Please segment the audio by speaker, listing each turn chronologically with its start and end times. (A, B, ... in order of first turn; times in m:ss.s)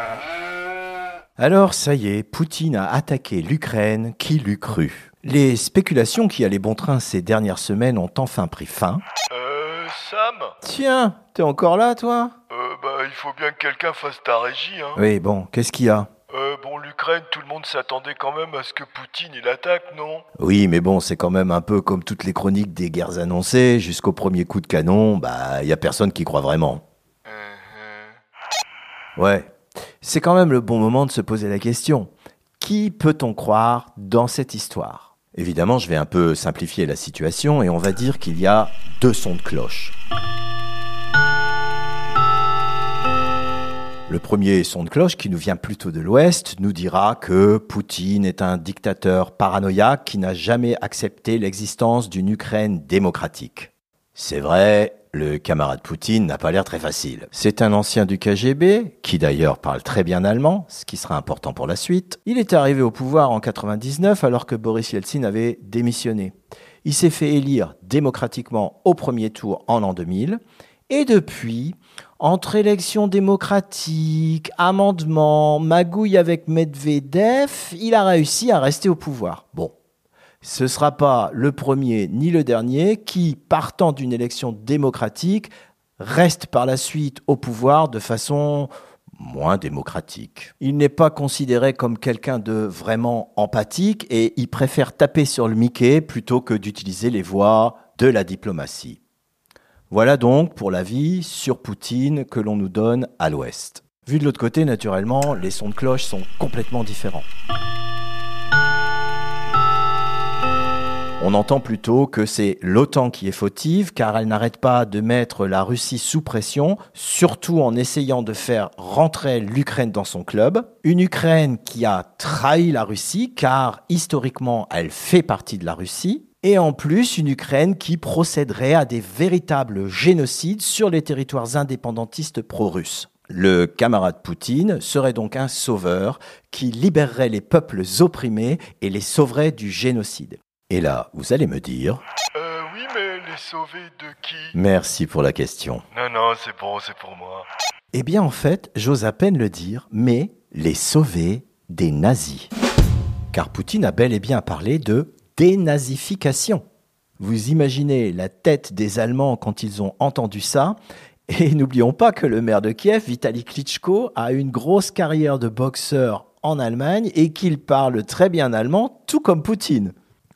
0:01.4-0:09.0 A
0:09.3-0:10.6 B
0:10.6-0:12.4 A
0:12.5-0:15.0 B
0:15.0-0:16.1 A
0:16.3-0:20.2 B
0:20.4-0:26.8 A
0:27.3-0:28.1 B
0:29.2-0:29.5 A
0:30.0-0:40.0 A
0:44.1-1:19.7 A
1:20.4-1:39.0 A
1:39.9-1:47.3 A
1:51.2-2:22.0 A
2:22.4-2:24.6 B
2:24.5-2:25.8 A
2:25.9-2:27.5 B
2:27.9-2:32.5 A
2:33.3-2:36.6 A
2:37.2-2:40.8 A
2:41.3-2:49.9 A